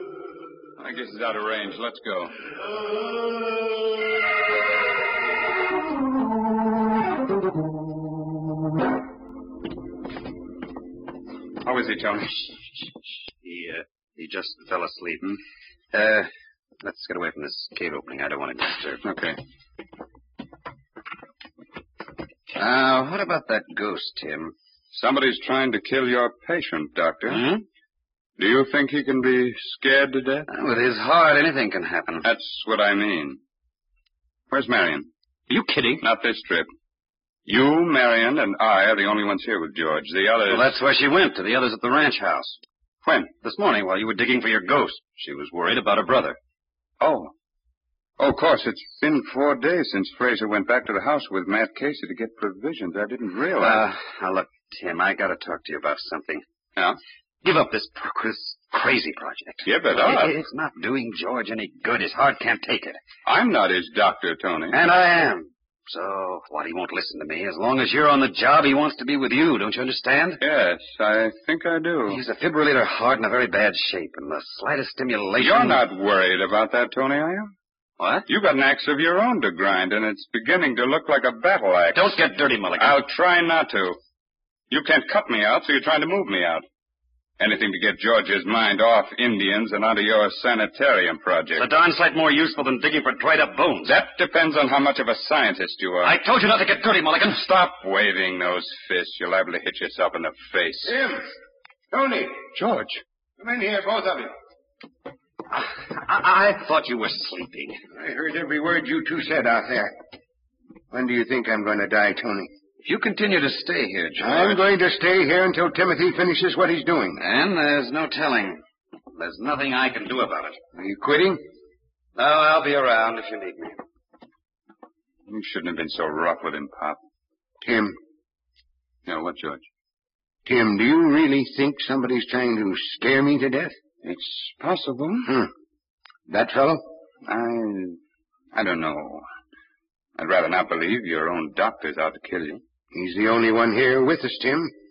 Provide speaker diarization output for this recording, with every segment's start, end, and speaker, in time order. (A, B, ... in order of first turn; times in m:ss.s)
0:00.8-0:02.3 A
0:11.6-0:12.5 A
0:13.4-0:15.4 B
0:15.9-0:16.3 B
0:16.8-0:19.0 B
0:19.0-0:19.4 A
0:22.6-0:24.5 B
0:24.9-0:27.4 A
0:27.3-0:27.6 B
0:28.4-0:30.5 A
0:30.5-0:32.3 B
0:32.2-0:33.4 A
0:34.5-0:35.1 A
0:35.5-0:36.0 B
0:36.0-0:36.7 A
0:37.5-0:40.8 A
0:40.5-0:42.6 B
0:43.0-0:43.3 A
0:43.4-0:46.4 B
0:47.0-0:47.3 A
0:48.2-0:53.9 A
0:53.6-0:56.4 B
0:57.4-1:03.0 B
0:59.6-1:00.4 A
1:03.2-1:04.8 A
1:04.7-1:10.4 B
1:10.4-1:12.2 A
1:12.1-1:15.8 B
1:15.4-1:17.5 A
1:18.0-1:18.3 B
1:18.3-1:22.2 A
1:21.9-1:23.0 B
1:22.8-1:24.0 A
1:24.7-1:26.6 A
1:27.4-1:31.7 A
1:31.6-1:34.0 B
1:33.8-1:36.2 A
1:36.0-1:37.4 B
1:37.2-1:40.9 A
1:40.9-1:41.2 C
1:41.9-1:42.4 C
1:42.5-1:43.0 A
1:43.4-1:44.3 C
1:45.5-1:47.8 B
1:48.0-1:49.9 C
1:50.9-1:52.5 C
1:52.8-1:54.6 B
1:54.2-1:57.2 C
1:57.2-1:58.6 B
1:59.2-2:00.6 B
2:00.8-2:01.4 C
2:02.2-2:03.8 B
2:05.3-2:07.0 A
2:07.6-2:08.0 C
2:09.1-2:09.7 A
2:10.5-2:13.8 C
2:14.0-2:15.3 A
2:16.3-2:16.8 C
2:17.2-2:18.0 A
2:18.5-2:19.2 A
2:20.2-2:22.6 A
2:22.9-2:24.7 C